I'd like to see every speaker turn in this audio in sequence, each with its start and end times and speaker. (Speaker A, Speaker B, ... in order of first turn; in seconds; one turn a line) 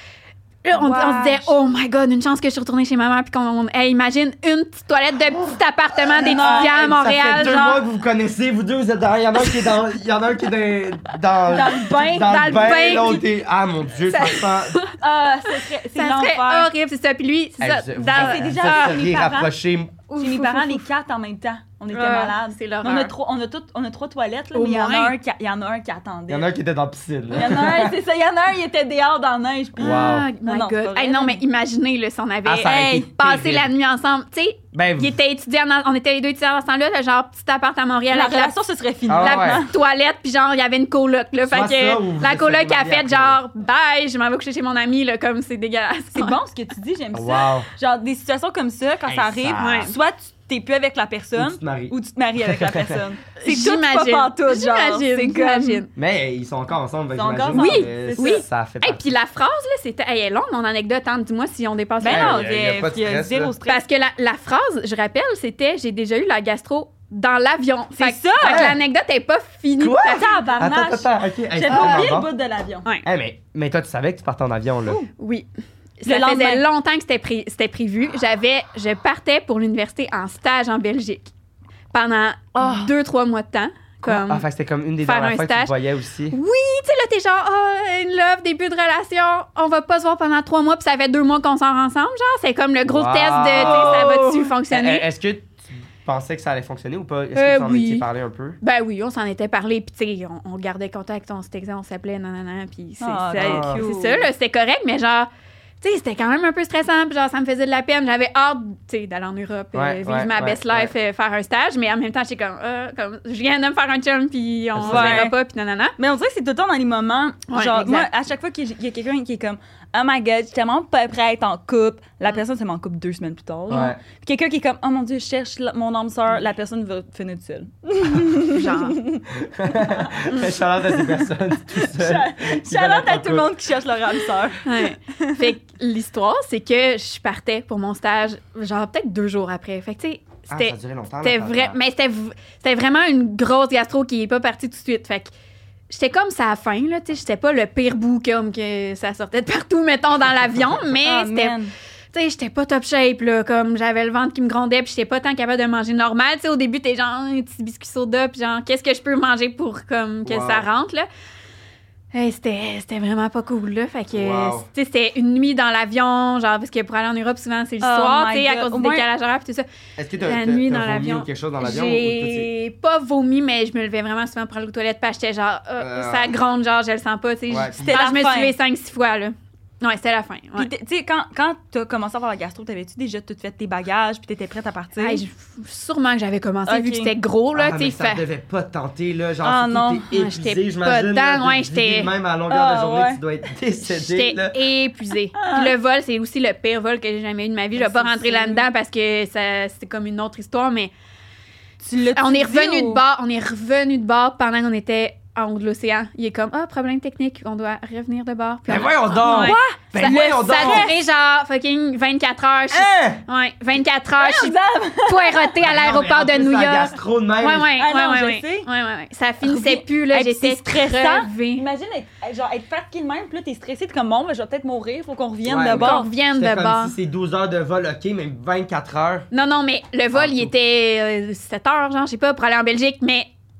Speaker A: 0.6-7.8
Speaker B: 0.7-1.5
Speaker C: 6.1-14.8
Speaker B: 6.1-7.0
Speaker B: 11.5-13.1
Speaker A: 12.2-13.2
Speaker A: 14.1-14.9
Speaker B: 15.0-16.7
Speaker A: 15.5-19.1
Speaker C: 17.6-20.0
Speaker B: 18.1-19.5
Speaker A: 20.1-20.9
Speaker B: 20.2-26.5
Speaker A: 21.9-23.1
Speaker A: 24.5-25.1
Speaker C: 26.3-27.9
Speaker B: 27.3-31.4
Speaker C: 29.8-30.3
Speaker A: 29.8-38.5
Speaker C: 32.4-33.7
Speaker B: 32.6-33.1
Speaker C: 34.7-35.2
Speaker B: 38.1-39.7
Speaker C: 39.1-39.6
Speaker A: 39.1-46.3
Speaker C: 41.5-43.4
Speaker B: 46.1-55.9
Speaker C: 47.1-47.7
Speaker C: 49.0-49.9
Speaker A: 49.6-49.9
Speaker C: 51.4-53.0
Speaker A: 53.4-55.9
Speaker C: 56.0-59.1
Speaker B: 57.1-58.4
Speaker A: 57.5-62.4
Speaker B: 62.0-63.8
Speaker C: 62.0-63.5
Speaker A: 63.6-70.5
Speaker B: 68.0-68.8
Speaker C: 68.4-68.8
Speaker C: 69.8-72.3
Speaker B: 70.1-72.8
Speaker A: 71.7-72.0
Speaker C: 73.0-75.0
Speaker A: 75.2-75.5
Speaker A: 76.0-81.3
Speaker B: 76.0-76.6
Speaker A: 81.9-84.4
Speaker B: 82.6-82.9
Speaker C: 84.0-86.3
Speaker A: 85.0-85.7
Speaker A: 86.3-95.0
Speaker C: 92.9-98.6
Speaker B: 93.5-94.5
Speaker A: 97.3-98.0
Speaker A: 98.6-105.3
Speaker B: 103.0-104.3
Speaker C: 103.4-103.8
Speaker A: 105.8-115.9
Speaker C: 109.7-110.9
Speaker C: 114.7-115.3
Speaker B: 114.8-115.3
Speaker B: 116.0-129.2
Speaker A: 117.5-118.1
Speaker C: 123.7-124.0
Speaker A: 128.5-129.0
Speaker C: 129.4-133.5
Speaker B: 130.9-135.5
Speaker A: 134.6-145.3
Speaker C: 140.5-141.8
Speaker A: 145.9-151.6
Speaker B: 151.0-151.7
Speaker A: 152.1-161.1
Speaker C: 160.2-160.7
Speaker A: 162.1-169.7
Speaker C: 164.1-164.7
Speaker B: 167.8-169.1
Speaker C: 170.0-172.5
Speaker A: 170.2-180.7
Speaker C: 175.8-176.3
Speaker C: 177.5-178.0
Speaker B: 177.8-178.6
Speaker B: 180.6-185.2
Speaker A: 185.0-188.2
Speaker B: 186.7-187.1
Speaker C: 187.5-194.6
Speaker B: 189.4-190.1
Speaker A: 190.1-192.1
Speaker B: 192.5-193.2
Speaker A: 193.9-200.9
Speaker B: 195.4-195.7
Speaker B: 197.8-198.7
Speaker B: 201.8-203.0
Speaker A: 202.1-221.7
Speaker C: 208.7-210.9
Speaker B: 209.2-210.9
Speaker C: 212.7-213.2
Speaker B: 214.2-215.6
Speaker C: 215.6-217.7
Speaker B: 217.8-218.7
Speaker B: 219.4-226.1
Speaker C: 225.4-229.3
Speaker A: 225.7-226.9
Speaker A: 229.3-233.3
Speaker C: 230.1-230.5